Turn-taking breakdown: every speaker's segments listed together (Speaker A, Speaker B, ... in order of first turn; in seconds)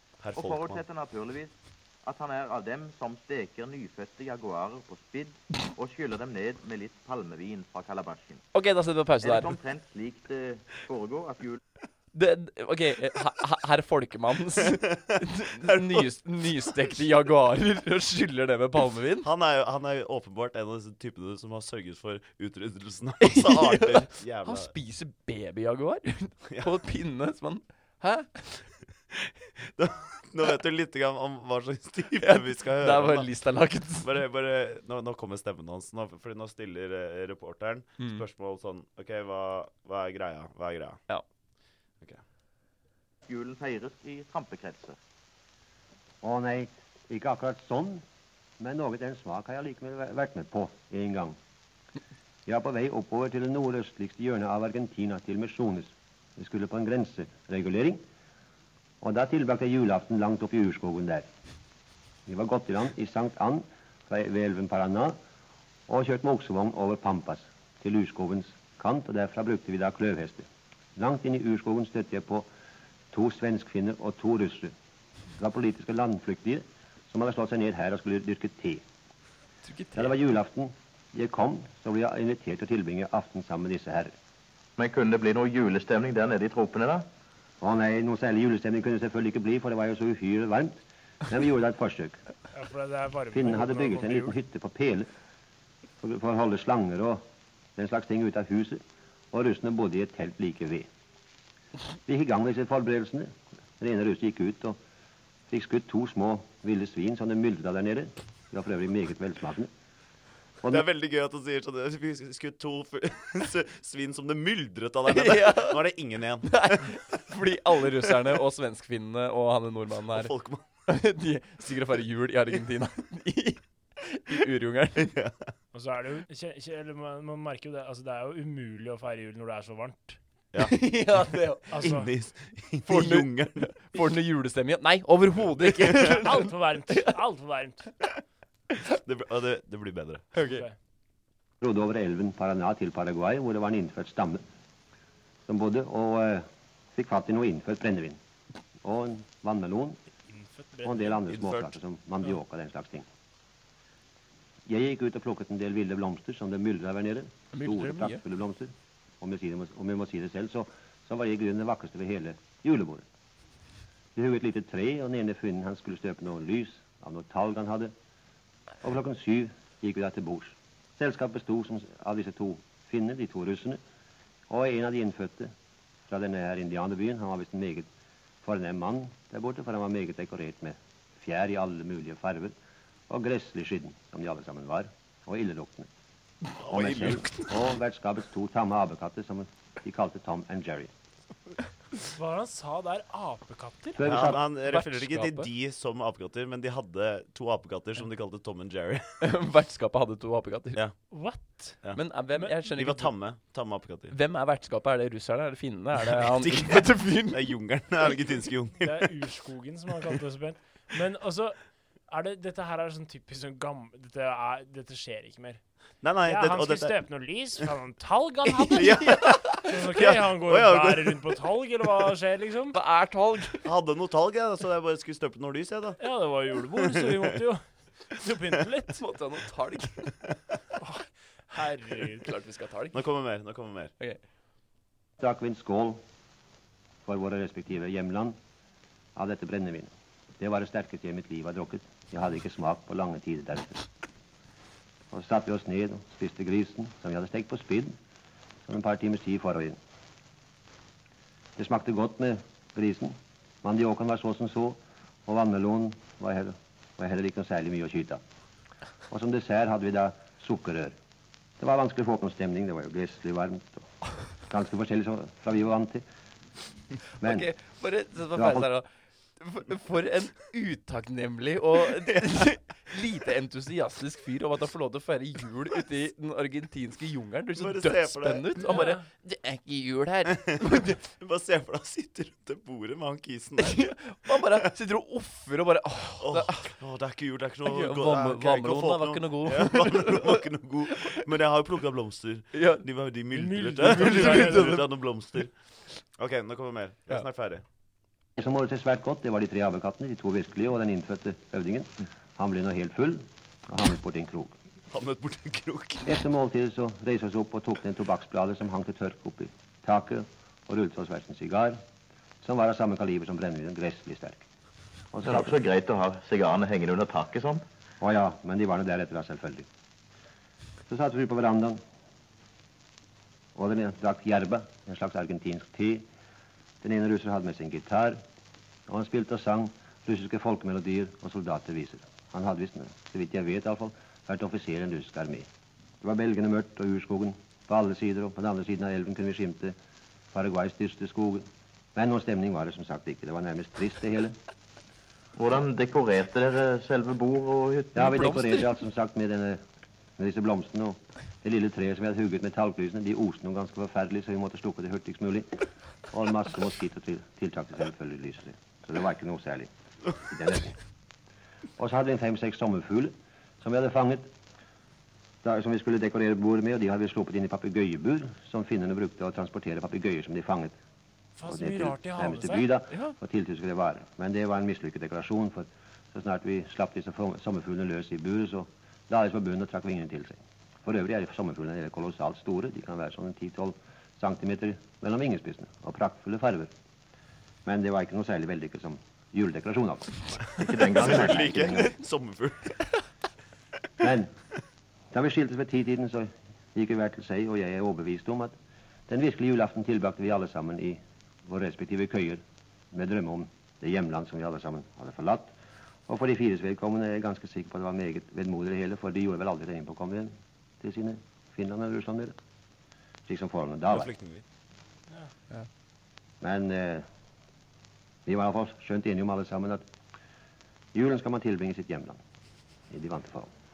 Speaker A: 0.2-0.8, 15.3-17.0, 19.2-24.8, 29.1-33.3, 34.0-41.0, 110.7-117.0, 117.7-118.3, 120.1-120.7, 125.0-125.5, 130.5-133.8, 138.9-140.4, 151.3-151.7, 186.6-187.8, 194.0-199.1, 200.7-201.1, 202.7-204.2, 206.0-209.1, 216.0-217.0, 218.7-221.4, 223.6-226.0, 232.9-233.9, 271.8-272.5, 277.5-278.6, 280.3-284.7, 286.2-295.5, 296.2-297.6, 304.9-306.2, 390.9-392.8, 413.9-414.4
Speaker B: 0.3-8.4, 9.2-11.6, 43.3-45.0, 84.8-87.0, 315.2-317.6, 345.4-348.3, 390.6-391.8
Speaker C: 8.5-9.6, 12.1-19.3, 23.2-28.6, 32.2-34.1, 79.7-80.1, 115.2-115.9, 116.4-120.3, 120.9-125.1, 130.6-131.8, 132.9-137.2, 140.3-140.7, 157.5-158.1, 194.7-195.5, 199.2-200.8, 201.9-203.1, 204.1-207.4, 219.0-219.6, 222.7-223.7, 228.9-230.2, 232.2-233.0, 267.2-268.9, 269.4-281.0, 283.6-286.7, 287.7-290.3, 292.5-292.9, 294.0-294.8
Speaker D: 46.2-48.0, 48.6-51.4, 52.5-58.0, 59.0-61.3, 62.3-65.2, 65.9-72.5, 73.1-74.7, 75.3-78.8, 80.0-84.1, 87.6-92.2, 93.3-95.1, 96.0-97.2, 97.8-98.8, 99.3-100.8, 102.0-104.8, 105.5-109.7, 141.6-144.4, 145.4-148.2, 148.8-150.0, 150.8-153.1, 154.7-158.7, 159.2-163.0, 164.2-167.9, 168.8-173.8, 174.5-175.5, 176.1-177.9, 178.4-182.5, 183.1-185.9, 186.7-190.9, 193.9-194.4, 235.2-236.0, 237.0-238.3, 239.2-243.8, 245.1-247.9, 248.7-249.8, 251.6-258.2, 259.1-260.9, 261.6-263.9, 264.5-266.0, 267.2-267.5, 268.3-268.7, 298.4-304.5, 306.0-311.8, 312.4-314.4, 315.1-315.6, 318.0-319.6, 320.9-321.8, 323.5-326.0, 326.8-328.2, 328.9-335.5, 336.0-339.7, 340.3-344.3, 347.9-349.6, 350.2-355.5, 356.1-360.8, 361.8-364.2, 365.4-370.8, 371.4-386.7, 387.6-390.1, 390.9-391.9, 394.0-394.3, 395.1-398.5, 399.1-402.4, 402.9-405.5, 406.1-412.3, 413.3-414.1, 416.4-417.0, 418.2-419.8, 420.9-422.2, 422.9-423.5
Speaker E: 92.5-94.4, 125.7-130.2, 131.7-132.1, 135.8-137.8, 140.4-140.7, 150.3-151.2, 192.1-194.0, 201.1-202.6, 208.8-219.1, 219.6-222.8, 226.0-229.0, 230.8-232.3, 293.3-294.8, 371.4-372.6